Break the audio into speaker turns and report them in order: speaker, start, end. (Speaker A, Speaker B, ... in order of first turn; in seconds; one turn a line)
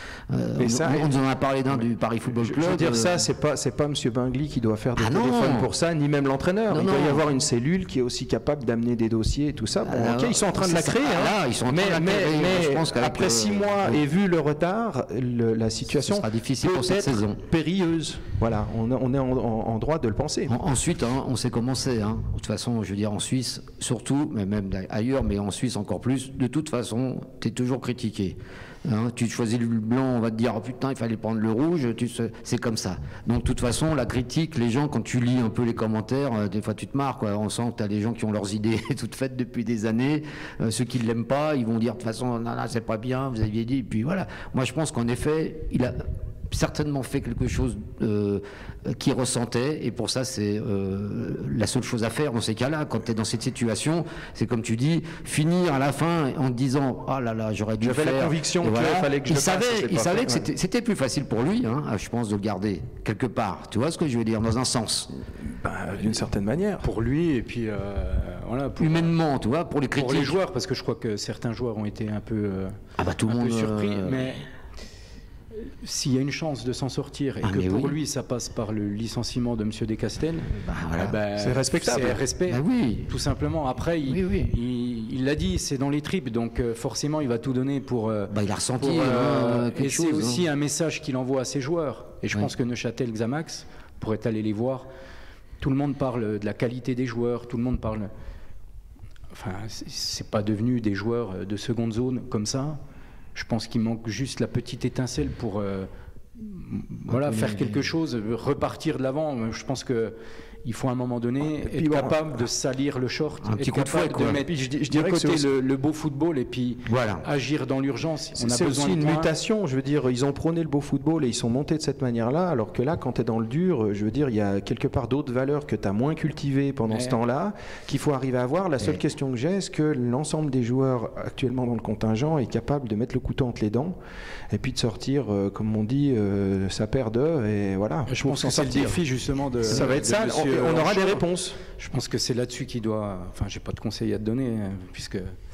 Speaker A: 0.3-3.2
Speaker B: 0.6-1.2
Speaker B: 2.4-20.6
Speaker A: 5.0-5.7
Speaker A: 6.7-7.2
Speaker A: 9.8-14.0
Speaker A: 16.0-17.4
Speaker A: 20.5-65.1
Speaker B: 57.8-60.5
Speaker B: 65.4-66.8
Speaker C: 66.8-69.2
Speaker A: 68.8-70.4
Speaker C: 70.0-74.4
Speaker A: 73.0-74.4
Speaker C: 75.6-94.9
Speaker A: 77.4-78.0
Speaker A: 80.6-81.2
Speaker B: 81.4-82.2
Speaker A: 82.1-83.1
Speaker A: 84.1-84.5
Speaker A: 88.3-90.4
Speaker C: 95.6-98.1
Speaker C: 99.3-102.8
Speaker C: 103.3-119.3
Speaker A: 107.1-107.8
Speaker B: 111.7-112.2
Speaker A: 113.5-114.4
Speaker B: 114.3-115.5
Speaker A: 116.9-117.2
Speaker B: 118.4-134.0
Speaker C: 126.9-127.2
Speaker B: 134.5-141.6
Speaker C: 138.1-141.2
Speaker A: 139.7-140.2
Speaker C: 141.8-145.3